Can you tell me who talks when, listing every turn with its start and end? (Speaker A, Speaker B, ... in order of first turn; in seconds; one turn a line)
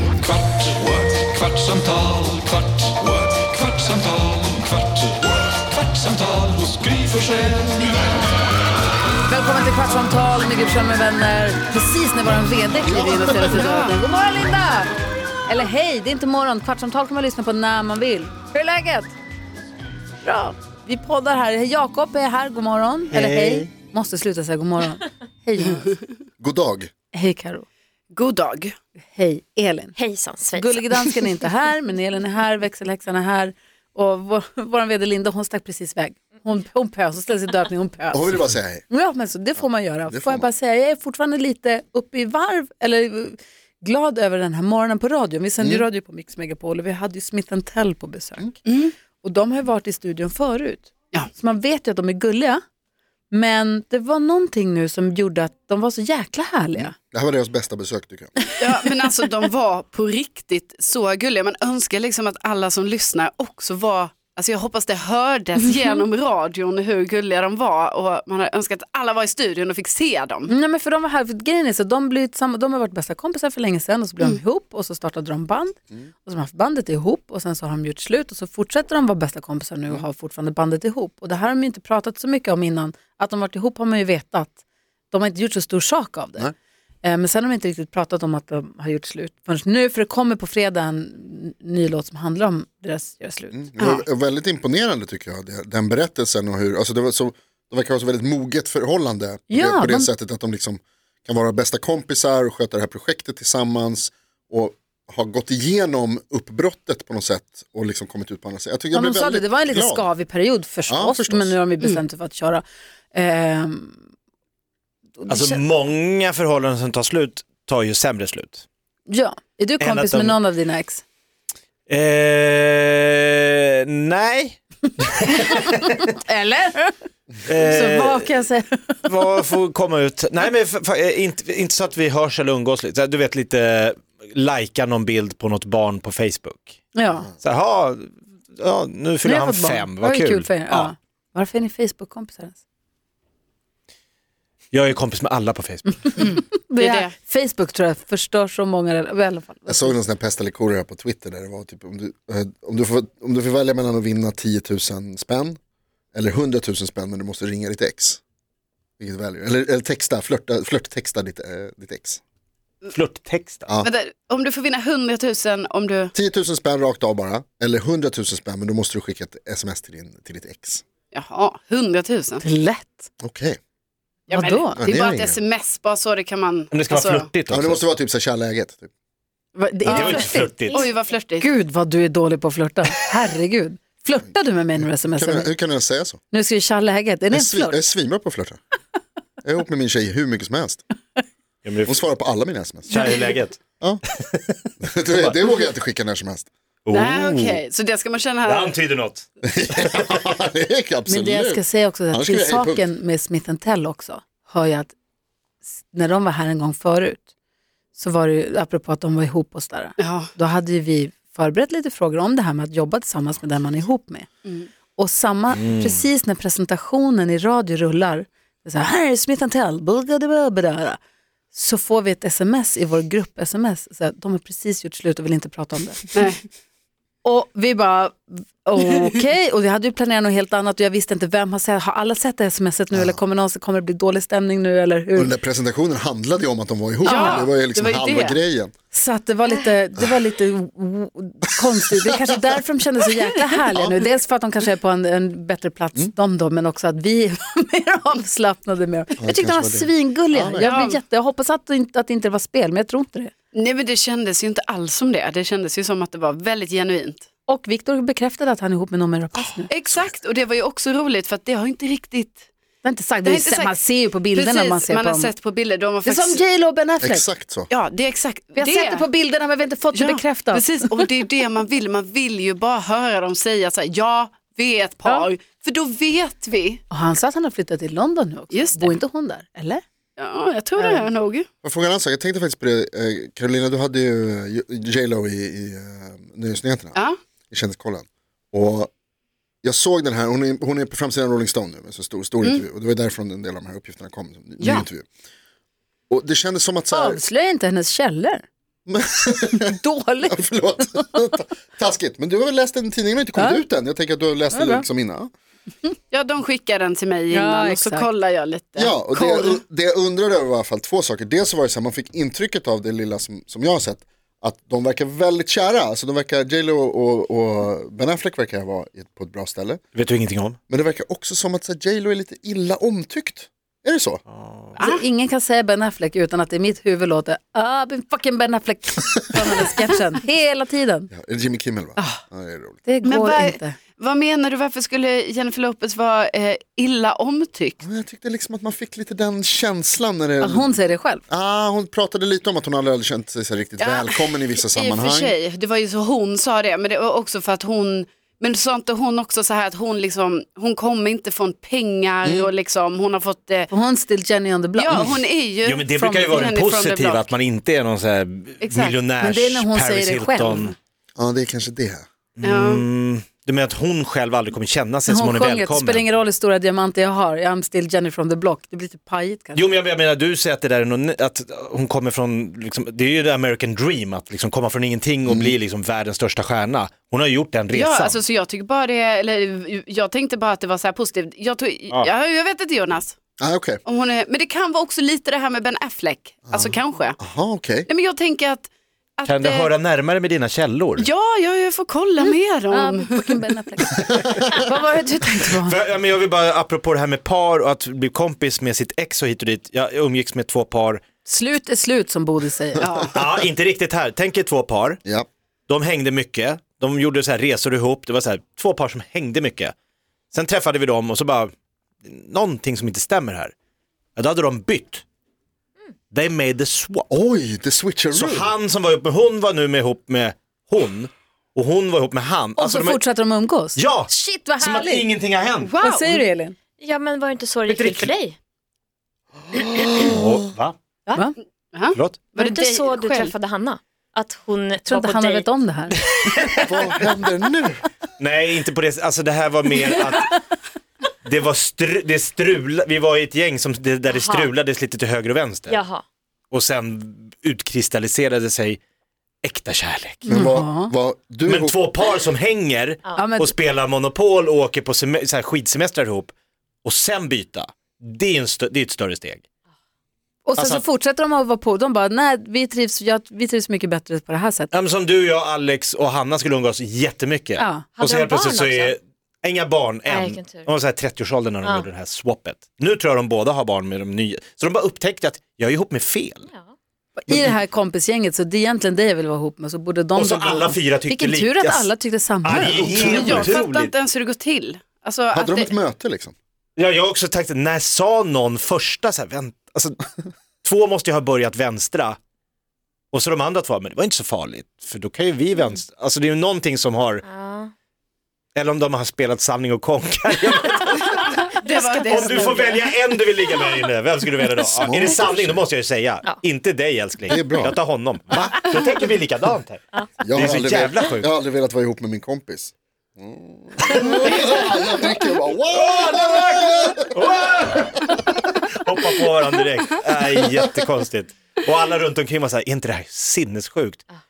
Speaker A: 1.4-2.1
Speaker A: 3.4-7.9
Speaker B: 9.2-14.9
Speaker C: 12.8-13.7
Speaker D: 13.5-13.9
Speaker B: 15.4-19.1
Speaker B: 20.2-26.0
Speaker C: 23.1-23.7
Speaker C: 26.4-26.9
Speaker B: 27.1-27.6
Speaker D: 28.1-28.7
Speaker B: 29.1-29.9
Speaker E: 29.9-31.0
Speaker B: 30.5-48.5
Speaker C: 38.1-38.8
Speaker C: 40.1-40.5
Speaker C: 45.6-45.8
Speaker D: 48.6-48.9
Speaker B: 49.2-52.6
Speaker B: 53.3-56.9
Speaker C: 56.8-58.3
Speaker D: 58.6-70.5
Speaker B: 70.5-84.6
Speaker B: 85.1-86.5
Speaker B: 87.0-93.9
Speaker C: 93.5-110.1
Speaker B: 99.5-100.1
Speaker B: 108.9-114.0
Speaker C: 110.9-111.5
Speaker B: 115.2-115.6
Speaker F: 115.3-118.6
Speaker B: 119.1-121.0
Speaker F: 119.8-120.4
Speaker F: 121.9-126.1
Speaker B: 125.5-129.0
Speaker F: 127.5-128.4
Speaker F: 129.0-136.8
Speaker B: 136.9-137.3
Speaker F: 137.4-140.9
Speaker B: 139.2-142.6
Speaker F: 144.7-146.3
Speaker B: 146.2-149.9
Speaker D: 146.2-147.1
Speaker C: 149.7-155.6
Speaker C: 156.1-158.2
Speaker C: 159.0-162.2
Speaker F: 162.9-163.6
Speaker D: 163.8-166.1
Speaker C: 166.1-170.8
Speaker D: 171.1-172.4
Speaker B: 172.4-173.1
Speaker C: 173.2-173.6
Speaker D: 174.3-177.3
Speaker B: 174.3-174.9
Speaker C: 174.7-175.4
Speaker F: 176.7-177.8
Speaker C: 177.5-178.9
Speaker B: 179.5-185.5
Speaker F: 179.8-180.8
Speaker D: 179.8-181.4
Speaker C: 185.1-186.2
Speaker B: 186.3-187.8
Speaker C: 187.3-188.6
Speaker C: 189.4-190.8
Speaker F: 191.6-192.1
Speaker C: 191.8-193.2
Speaker F: 192.9-195.4
Speaker C: 194.8-196.5
Speaker F: 196.8-197.6
Speaker D: 196.9-198.9
Speaker F: 198.4-200.2
Speaker C: 199.6-202.8
Speaker B: 201.1-204.9
Speaker B: 205.7-207.2
Speaker B: 207.9-214.3
Speaker D: 210.0-210.3
Speaker B: 214.9-221.0
Speaker F: 215.5-216.0
Speaker B: 221.5-226.2
Speaker D: 226.1-226.4
Speaker B: 227.2-235.3
Speaker C: 232.9-233.2
Speaker C: 235.2-238.7
Speaker B: 237.0-237.5
Speaker D: 237.0-238.4
Speaker B: 238.9-253.3
Speaker C: 242.1-242.4
Speaker C: 249.2-250.8
Speaker D: 250.6-251.0
Speaker D: 253.5-257.2
Speaker B: 257.5-259.7
Speaker D: 259.7-262.5
Speaker B: 262.8-265.3
Speaker D: 263.2-263.8
Speaker D: 264.3-266.4
Speaker B: 266.0-267.2
Speaker C: 267.0-267.7
Speaker D: 267.7-269.0
Speaker B: 268.6-270.9
Speaker D: 269.9-276.8
Speaker B: 276.9-279.8
Speaker D: 278.5-278.9
Speaker D: 280.2-281.5
Speaker B: 280.8-281.0
Speaker C: 281.6-287.0
Speaker C: 287.5-288.9
Speaker C: 289.6-295.1
Speaker D: 294.6-294.9
Speaker C: 296.1-297.2
Speaker B: 296.9-298.4
Speaker C: 298.9-305.3
Speaker B: 299.6-300.5
Speaker B: 303.4-303.6
Speaker B: 304.5-304.9
Speaker D: 306.1-309.6
Speaker B: 307.3-308.1
Speaker C: 308.8-319.8
Speaker F: 319.9-320.6
Speaker C: 320.7-324.2
Speaker F: 324.3-324.8
Speaker B: 324.8-331.1
Speaker D: 324.8-325.0
Speaker C: 331.1-332.8
Speaker B: 332.9-333.8
Speaker D: 333.0-337.8
Speaker C: 337.8-340.7
Speaker B: 340.4-341.2
Speaker C: 341.3-345.3
Speaker D: 343.8-353.7
Speaker C: 352.2-352.5
Speaker B: 353.7-355.1
Speaker D: 354.8-357.3
Speaker F: 355.6-360.7
Speaker D: 358.6-359.0
Speaker B: 359.2-360.7
Speaker C: 361.2-362.0
Speaker F: 362.4-366.1
Speaker D: 362.4-362.8
Speaker B: 365.1-369.6
Speaker F: 369.5-378.2
Speaker C: 375.2-375.6
Speaker D: 377.7-383.1
Speaker C: 383.4-383.8
Speaker D: 383.9-387.2
Speaker C: 386.5-387.9
Speaker D: 387.9-389.7
Speaker F: 389.3-391.1
Speaker D: 391.0-393.4
Speaker B: 392.2-395.8
Speaker F: 395.6-401.0
Speaker B: 401.2-402.9
Speaker D: 402.8-403.2
Speaker F: 403.1-405.0
Speaker F: 405.7-409.7
Speaker F: 410.3-411.5
Speaker F: 412.0-413.5
Speaker F: 414.1-415.0
Speaker F: 416.1-417.1
Speaker C: 417.1-418.5
Speaker F: 418.1-423.0
Speaker B: 422.6-425.1
Speaker F: 423.7-425.7
Speaker D: 425.6-426.2
Speaker B: 425.8-426.6
Speaker E: 426.8-428.4
Speaker F: 427.7-428.1
Speaker C: 429.5-430.3
Speaker F: 429.7-430.8
Speaker D: 431.7-433.3
Speaker F: 431.9-432.3
Speaker E: 432.3-435.4
Speaker B: 434.8-435.9
Speaker F: 436.0-436.6
Speaker C: 436.6-437.8
Speaker F: 438.2-440.4
Speaker F: 441.2-445.8
Speaker E: 444.1-444.5
Speaker E: 445.7-446.0
Speaker F: 446.5-448.8
Speaker F: 449.4-450.5
Speaker B: 450.2-450.9
Speaker C: 450.3-451.9
Speaker F: 451.4-456.3
Speaker B: 453.1-453.5
Speaker F: 456.8-459.4
Speaker B: 460.4-464.7
Speaker F: 460.6-460.8
Speaker F: 464.7-476.4
Speaker B: 467.6-467.9
Speaker E: 467.9-468.9
Speaker E: 470.1-470.7
Speaker E: 476.5-476.7
Speaker B: 477.2-483.4
Speaker C: 477.3-477.6
Speaker F: 480.1-481.9
Speaker F: 482.4-483.9
Speaker D: 482.6-485.7
Speaker C: 485.3-486.3
Speaker F: 486.8-490.1
Speaker F: 490.6-492.2
Speaker F: 493.1-497.2
Speaker E: 497.2-497.7
Speaker F: 498.5-509.8
Speaker D: 501.0-502.9
Speaker E: 504.6-505.0
Speaker C: 504.8-505.7
Speaker C: 507.3-507.8
Speaker C: 510.2-517.1
Speaker F: 510.3-511.3
Speaker F: 513.9-515.0
Speaker F: 515.7-524.0